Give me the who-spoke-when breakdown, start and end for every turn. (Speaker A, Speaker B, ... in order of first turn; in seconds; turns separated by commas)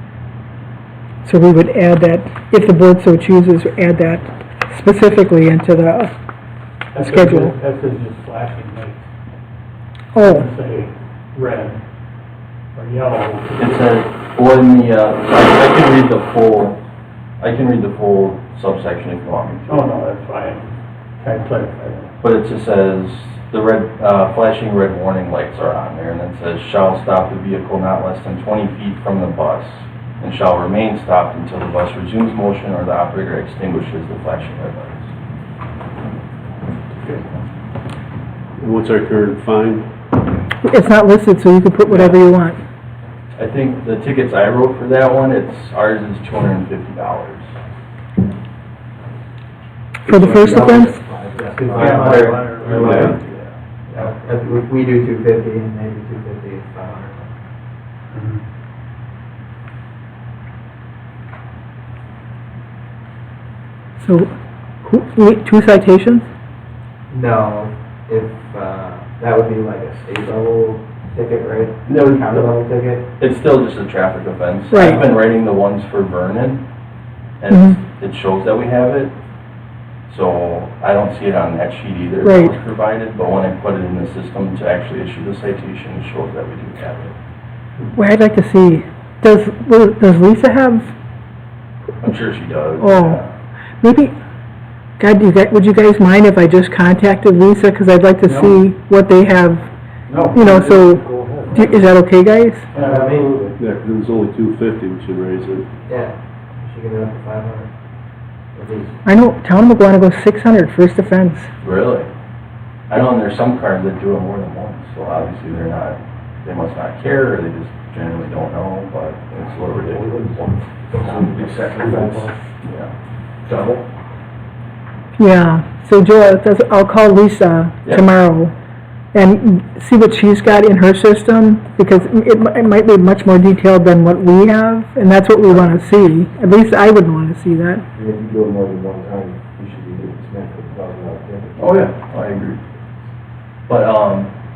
Speaker A: 1.2-6.1, Speaker B: 6.9-9.1, Speaker A: 7.0-7.5, Speaker A: 10.1-10.5, Speaker B: 10.2-11.8, Speaker B: 12.7-13.8, Speaker C: 13.6-16.8, Speaker C: 17.4-19.9, Speaker B: 19.7-22.1, Speaker C: 22.2-35.1, Speaker D: 38.6-39.9, Speaker A: 40.6-42.6, Speaker C: 41.9-42.2, Speaker C: 43.4-47.5, Speaker A: 50.0-51.0, Speaker E: 50.1-53.2, Speaker B: 51.6-53.1, Speaker C: 52.0-53.5, Speaker D: 52.7-53.1, Speaker E: 53.9-57.3, Speaker A: 64.0-64.3, Speaker A: 64.8-66.2, Speaker E: 67.1-73.0, Speaker C: 71.8-72.5, Speaker C: 73.2-76.6, Speaker A: 74.7-75.0, Speaker E: 74.8-75.2, Speaker C: 77.4-79.1, Speaker A: 77.5-77.8, Speaker C: 80.1-87.1, Speaker A: 82.2-82.5, Speaker A: 88.0-90.9, Speaker C: 92.0-93.3, Speaker A: 92.8-93.2, Speaker A: 93.8-94.1, Speaker A: 95.0-99.7, Speaker B: 98.2-98.6, Speaker B: 100.1-100.5, Speaker A: 100.3-102.7, Speaker D: 100.5-101.5, Speaker B: 101.3-101.5, Speaker B: 102.7-103.1, Speaker E: 102.7-103.5, Speaker D: 103.2-105.7, Speaker E: 105.9-107.7, Speaker E: 108.5-109.0, Speaker A: 109.0-111.5, Speaker C: 111.6-112.1, Speaker C: 112.9-120.5, Speaker F: 120.9-122.3, Speaker C: 122.6-122.9, Speaker F: 123.4-123.8, Speaker A: 125.2-128.5, Speaker A: 129.1-137.8, Speaker F: 137.9-141.9, Speaker C: 141.6-142.6, Speaker C: 143.7-144.3